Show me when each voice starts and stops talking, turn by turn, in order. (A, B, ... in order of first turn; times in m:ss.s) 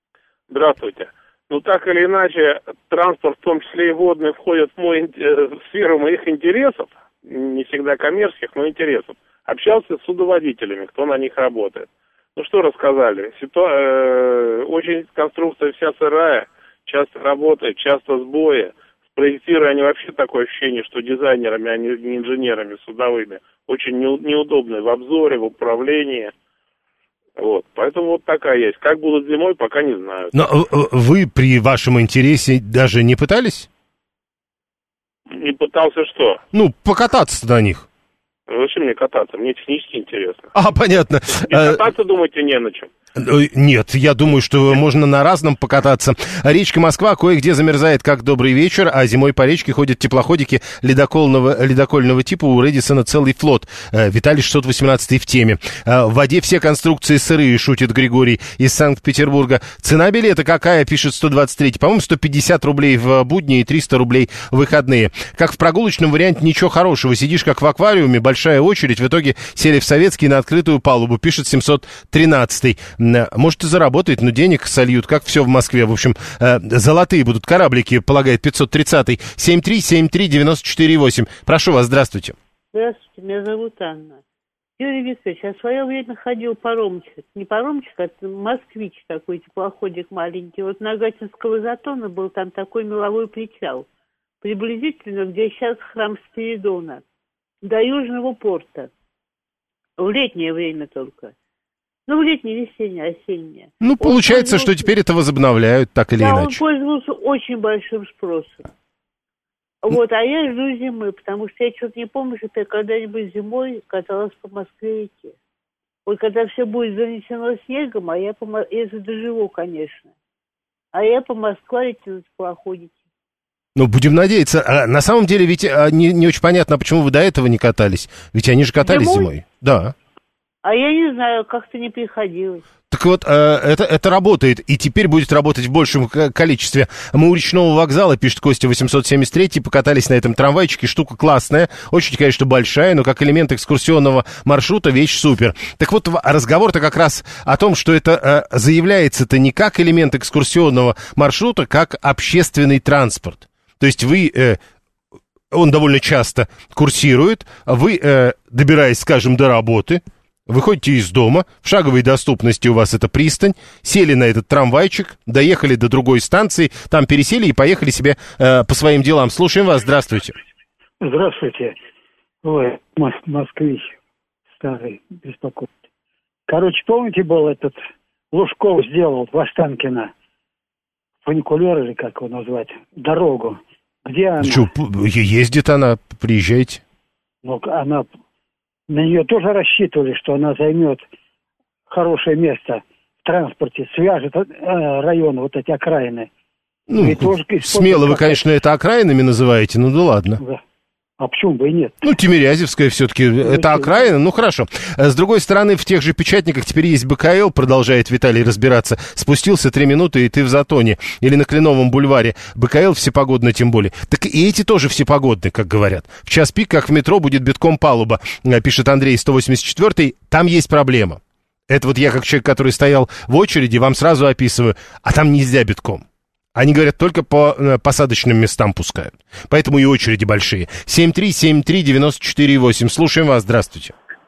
0:00.5-0:26.3 A
0:27.4-0:30.4 A
0:30.3-0:33.7 B
0:35.3-0:36.4 A
0:36.5-0:37.9 B
0:38.5-0:40.5 A
0:40.5-0:41.8 B
0:41.4-0:42.9 A
0:43.2-1:22.4 B
1:22.7-1:24.2 C
1:24.8-1:33.9 C
1:34.4-1:37.0 C
1:37.6-1:38.9 C
1:40.0-1:41.3 C
1:42.1-1:44.9 C
1:43.8-1:46.6 B
1:46.2-1:48.7 C
1:49.8-1:55.4 C
1:56.1-2:00.1 C
2:00.9-2:03.0 C
2:03.8-2:09.9 B
2:08.8-2:09.3 C
2:10.6-2:12.6 C
2:12.9-2:34.6 B
2:35.5-2:50.4 B
2:51.0-2:51.8 D
2:52.4-2:53.9 D
2:54.6-2:55.8 D
2:56.5-2:57.8 D
2:58.3-3:00.1 D
3:01.2-3:04.7 D
3:04.4-3:06.8 B
3:07.4-3:08.1 D
3:08.9-3:11.0 D
3:11.9-3:16.3 D
3:16.9-3:20.4 B
3:16.9-3:18.4 D
3:21.2-3:22.1 D
3:22.0-3:53.9 B
3:23.4-3:24.1 D